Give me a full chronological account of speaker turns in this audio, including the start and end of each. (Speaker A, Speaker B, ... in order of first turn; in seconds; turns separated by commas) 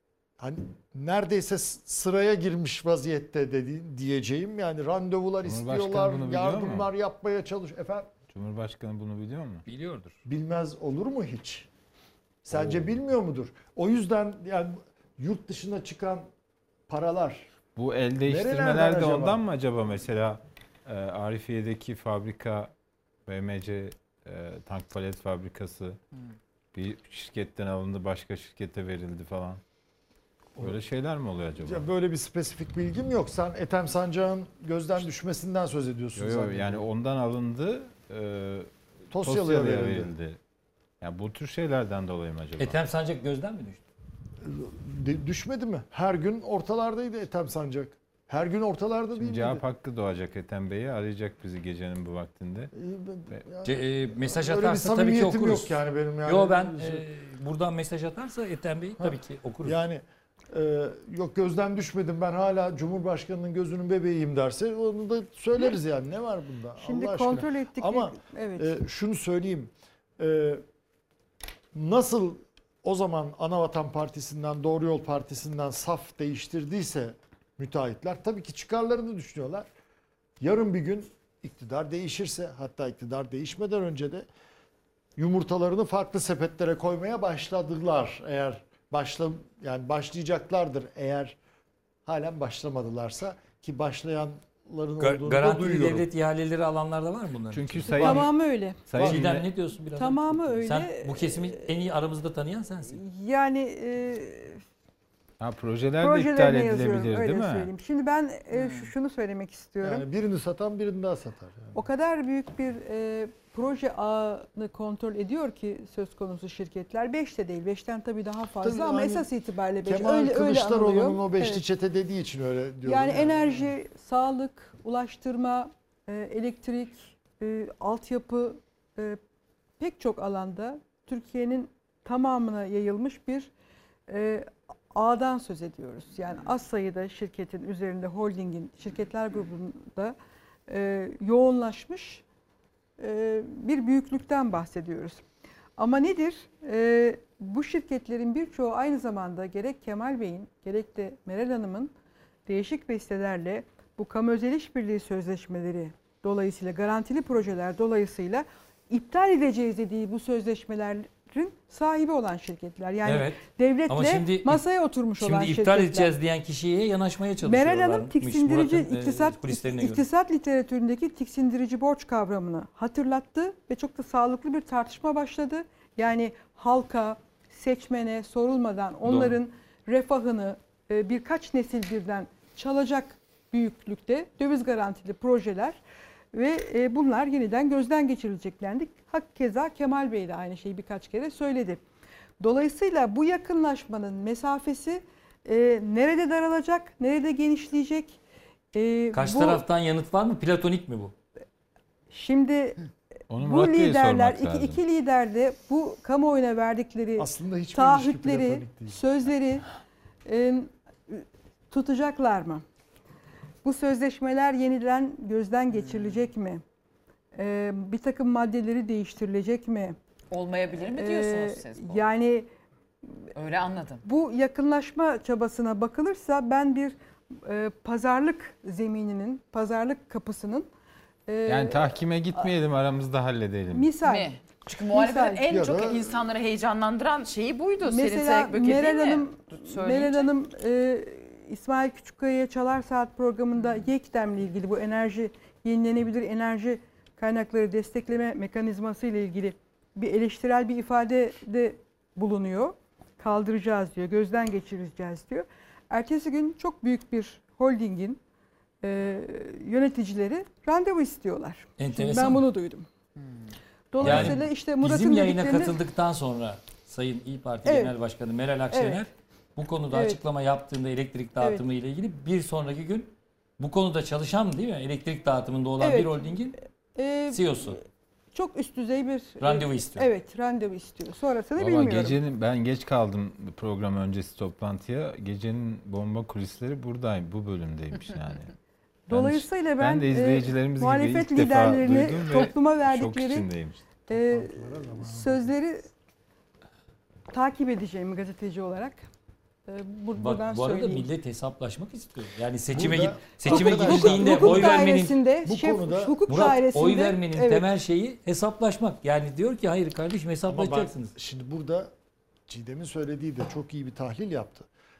Speaker A: 0.4-8.1, Speaker B: 5.4-6.9, Speaker B: 8.3-9.6, Speaker C: 9.7-10.1, Speaker A: 10.2-11.7, Speaker A: 12.4-16.3, Speaker B: 12.6-12.8, Speaker A: 16.9-17.5, Speaker B: 17.8-22.7, Speaker A: 18.2-19.4, Speaker B: 23.2-26.0, Speaker B: 26.7-29.6, Speaker B: 30.6-31.9, Speaker A: 31.6-36.8, Speaker B: 36.1-40.4, Speaker A: 39.1-40.1, Speaker B: 41.0-42.8, Speaker C: 42.6-43.8, Speaker A: 44.4-49.6, Speaker B: 49.2-52.7, Speaker A: 52.7-57.0, Speaker C: 53.6-59.8, Speaker A: 59.0-70.6, Speaker D: 66.8-68.7, Speaker A: 71.7-79.7, Speaker A: 80.4-84.2, Speaker A: 85.2-91.4, Speaker A: 92.0-96.0, Speaker C: 95.0-98.2, Speaker B: 97.5-98.3, Speaker D: 97.9-98.8, Speaker B: 98.9-99.4, Speaker A: 98.9-99.4, Speaker C: 98.9-103.0, Speaker D: 100.0-101.6, Speaker D: 102.9-104.6, Speaker B: 105.4-107.7, Speaker D: 106.0-110.0, Speaker E: 108.5-108.9, Speaker A: 109.8-111.8, Speaker D: 111.7-121.6, Speaker A: 118.6-119.3, Speaker A: 119.8-123.7, Speaker D: 122.8-129.2, Speaker D: 129.8-133.5, Speaker D: 134.1-140.1, Speaker D: 140.7-142.2, Speaker D: 143.0-145.2, Speaker D: 145.8-151.9, Speaker D: 152.5-166.1, Speaker C: 163.0-164.6, Speaker C: 165.2-170.0, Speaker D: 167.4-185.8, Speaker C: 179.0-179.4, Speaker D: 186.3-191.8, Speaker D: 192.4-198.2, Speaker D: 198.7-199.6, Speaker C: 199.1-201.1, Speaker D: 202.1-202.8, Speaker B: 203.3-204.8, Speaker D: 203.4-209.7, Speaker A: 207.2-209.0, Speaker D: 210.2-212.6, Speaker D: 213.6-216.6, Speaker E: 215.7-216.2, Speaker D: 217.3-220.0, Speaker E: 220.3-222.1, Speaker D: 220.8-222.5, Speaker E: 223.3-224.0, Speaker D: 224.0-230.7, Speaker D: 231.3-232.4, Speaker B: 231.5-233.9, Speaker D: 233.7-234.3, Speaker E: 234.0-240.3, Speaker D: 234.9-235.4, Speaker A: 235.5-236.2, Speaker D: 237.8-258.2, Speaker E: 243.6-243.9, Speaker D: 258.8-262.9, Speaker C: 261.8-262.4, Speaker E: 263.2-263.5, Speaker D: 263.9-265.8, Speaker C: 264.0-276.6, Speaker B: 264.0-264.4, Speaker D: 267.6-267.9, Speaker D: 268.7-269.1, Speaker D: 269.9-270.2, Speaker D: 271.4-271.6, Speaker D: 275.8-276.4, Speaker D: 276.9-277.8, Speaker C: 277.3-277.8, Speaker D: 278.3-282.2, Speaker C: 279.4-280.1, Speaker B: 281.6-288.5, Speaker D: 289.1-293.5, Speaker B: 289.1-293.8, Speaker D: 294.1-295.9, Speaker A: 294.1-295.5, Speaker D: 297.3-299.0, Speaker D: 299.7-301.1, Speaker C: 300.2-305.2, Speaker A: 302.7-306.2, Speaker D: 303.5-307.7, Speaker C: 306.3-311.1, Speaker A: 310.5-311.9, Speaker A: 312.5-314.7